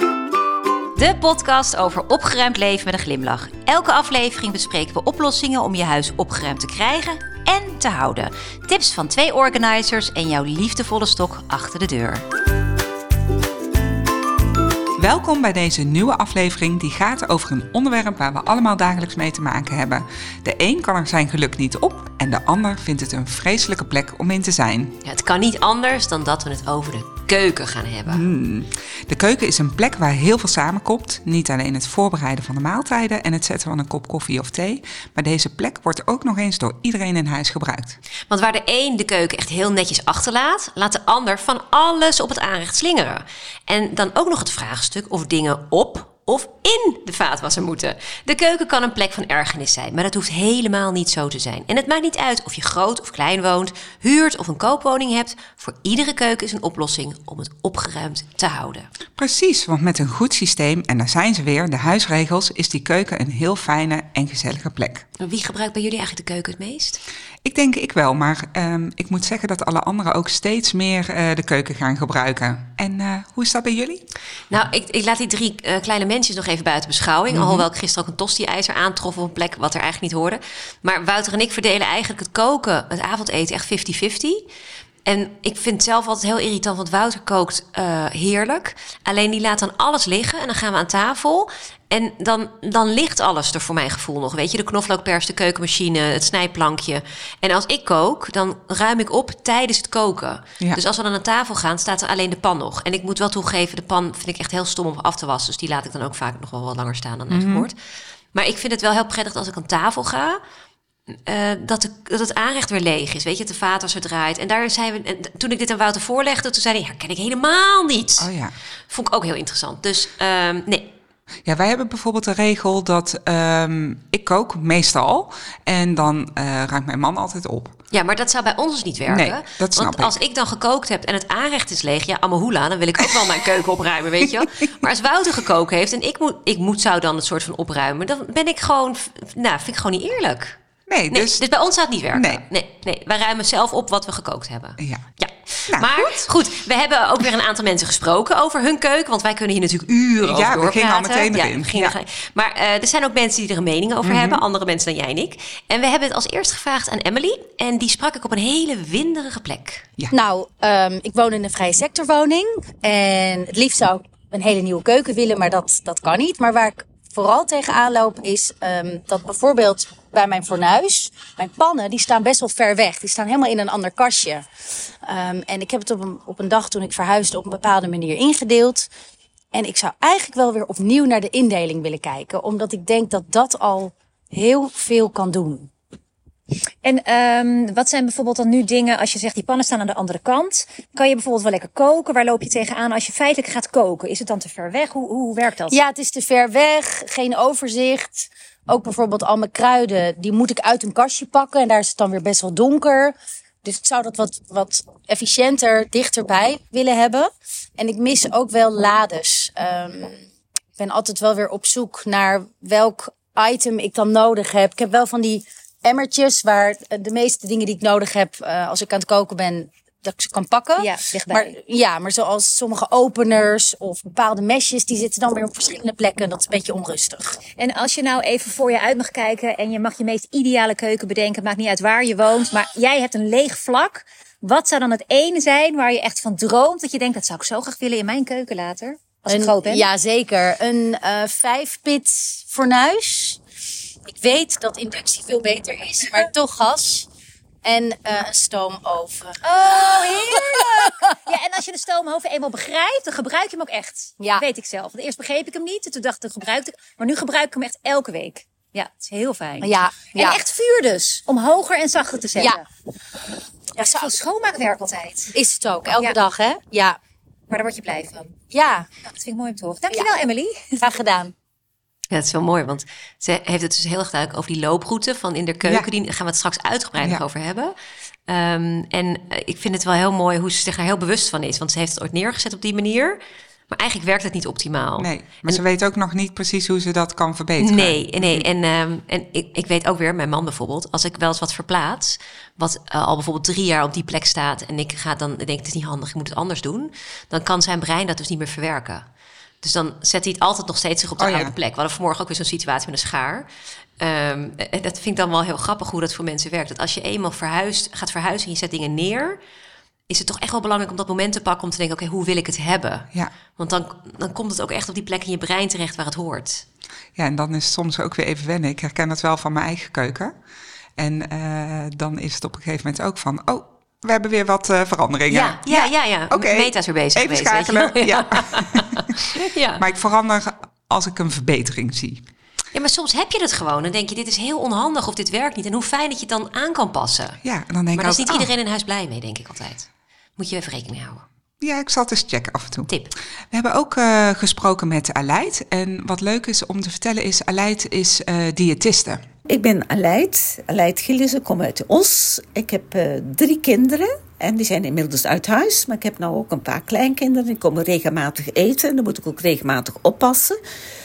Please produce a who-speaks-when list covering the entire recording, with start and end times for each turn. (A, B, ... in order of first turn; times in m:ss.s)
0:09.6-0:09.8 A
0:15.0-0:25.0 B
0:25.0-0:28.2 A
0:28.1-0:38.0 B
0:38.3-0:58.9 A
0:59.2-1:05.1 B
1:05.2-1:07.0 A
1:07.4-1:14.0 B
1:14.5-1:24.4 A
1:17.3-1:17.7 B
1:25.1-1:47.8 A
1:47.3-1:47.7 B
1:48.3-1:50.4 A
1:51.1-1:58.3 A
1:58.2-1:58.5 B
1:58.9-2:00.9 A
2:01.5-2:07.8 B
2:07.9-2:20.6 A
2:09.1-2:10.2 B
2:20.9-2:21.4 B
2:21.1-2:39.9 A
2:22.1-2:22.4 B
2:25.7-2:26.3 B
2:30.2-2:32.0 B
2:34.0-2:34.4 B
2:40.1-2:54.5 C
2:55.0-2:58.9 C
2:59.5-3:05.7 C
3:06.8-3:15.8 D
3:15.7-3:30.2 C
3:30.8-3:47.4 C
3:40.8-3:41.5 D
3:47.6-3:59.9 D
3:59.3-4:03.4 C
4:04.1-4:07.1 C
4:07.6-4:11.1 C
4:09.4-4:22.6 D
4:14.2-4:14.4 C
4:19.6-4:20.4 C
4:22.4-4:22.6 C
4:23.8-4:24.2 C
4:23.9-4:25.4 D
4:25.4-4:27.0 C
4:27.5-4:28.4 D
4:28.5-4:29.0 C
4:29.0-4:30.8 D
4:30.8-4:31.3 C
4:32.1-4:37.7 A
4:38.3-4:43.2 A
4:43.7-4:45.6 A
4:45.0-4:48.5 B
4:47.6-4:59.1 A
4:59.6-5:03.5 A
5:01.2-5:01.5 B
5:04.0-5:09.4 A
5:10.1-5:16.6 A
5:17.2-5:20.3 B
5:21.0-5:29.1 B
5:25.3-5:29.8 A
5:29.8-5:32.2 B
5:32.7-5:37.4 A
5:37.4-5:38.5 B
5:37.9-5:41.2 A
5:41.6-5:42.9 B
5:43.5-5:49.2 B
5:49.5-6:00.6 E